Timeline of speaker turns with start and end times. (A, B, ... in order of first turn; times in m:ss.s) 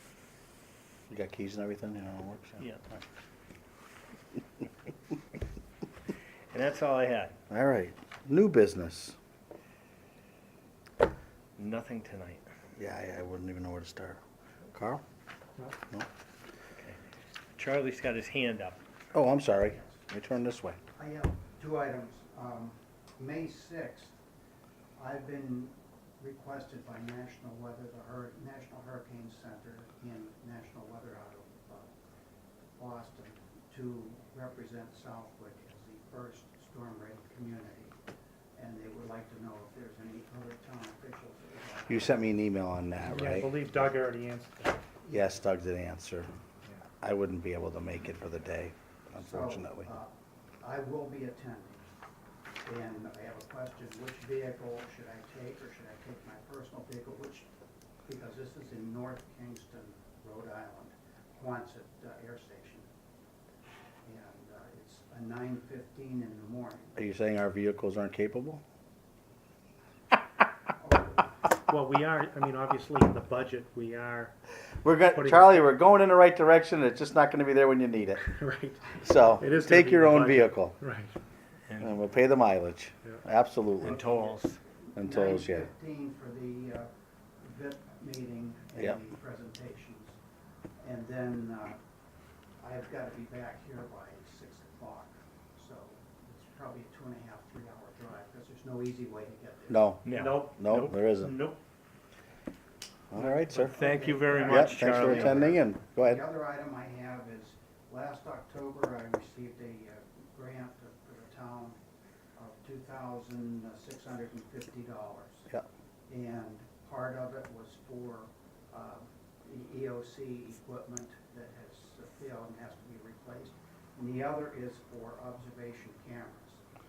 0:01.1-0:03.0 A
0:06.5-0:07.4 B
0:07.5-0:09.2 A
0:11.6-0:12.5 B
0:12.8-0:14.2 A
0:14.7-0:15.0 A
0:17.5-0:18.8 B
0:19.1-0:20.8 A
0:19.7-0:20.0 C
0:21.0-0:24.1 C
0:25.0-0:31.9 C
0:32.8-0:37.9 C
0:38.5-0:42.2 C
0:41.9-0:43.5 A
0:43.0-0:44.8 D
0:45.0-0:45.4 C
0:45.1-0:46.3 A
0:47.0-0:49.9 A
0:49.2-0:51.9 C
0:52.6-0:57.5 C
0:58.0-1:02.8 C
1:04.0-1:07.0 C
1:07.0-1:08.6 A
1:10.8-1:11.3 C
1:11.7-1:14.4 D
1:14.8-1:18.3 A
1:15.1-1:15.6 D
1:18.2-1:21.2 D
1:19.0-1:20.8 A
1:21.7-1:22.0 B
1:21.8-1:24.0 A
1:23.8-1:24.6 B
1:23.8-1:26.9 C
1:24.9-1:25.7 A
1:27.4-1:30.2 C
1:30.8-1:31.8 C
1:32.6-1:39.9 C
1:39.7-1:41.4 A
1:40.0-1:41.0 B
1:40.1-1:40.6 D
1:41.1-1:41.6 D
1:43.1-1:43.8 A
1:43.2-1:43.6 D
1:43.5-1:51.8 C
1:43.7-1:45.4 B
1:44.4-1:46.2 A
1:52.4-1:55.5 C
1:56.1-2:06.6 C